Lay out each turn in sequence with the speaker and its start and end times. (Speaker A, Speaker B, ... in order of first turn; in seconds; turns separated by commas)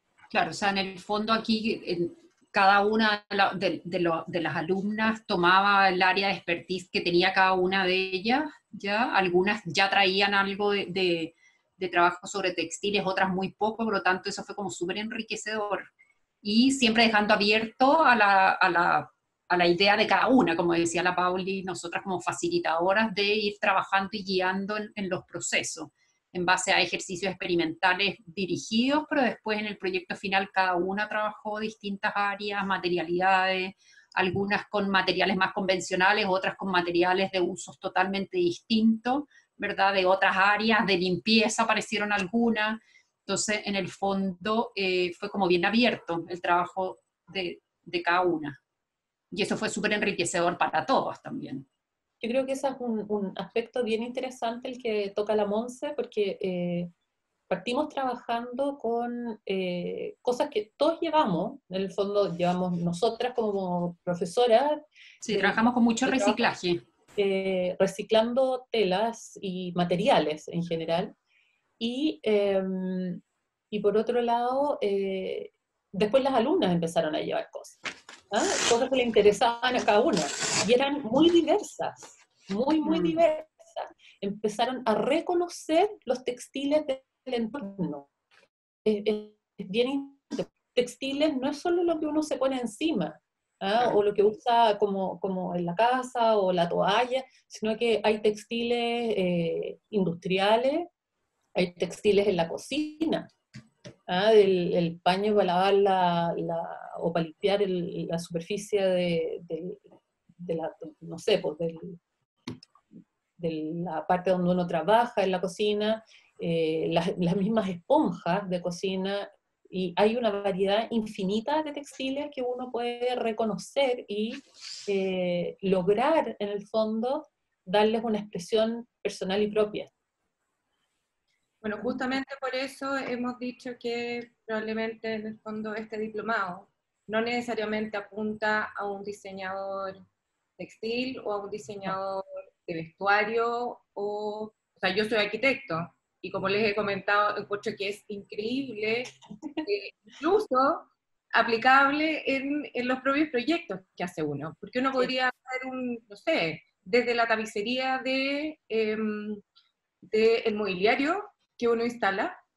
Speaker A: 0.3-15.9, Speaker A: 16.4-48.6, Speaker A: 49.3-51.7, Speaker B: 52.2-56.9, Speaker B: 57.5-66.4, Speaker A: 65.2-66.8, Speaker B: 67.2-71.1, Speaker B: 71.8-77.8, Speaker B: 78.3-88.1, Speaker A: 82.8-83.2, Speaker B: 88.8-100.9, Speaker B: 101.5-103.3, Speaker B: 104.1-109.8, Speaker B: 110.4-112.0, Speaker B: 113.4-129.9, Speaker C: 131.6-140.0, Speaker C: 140.6-159.4, Speaker C: 160.0-162.4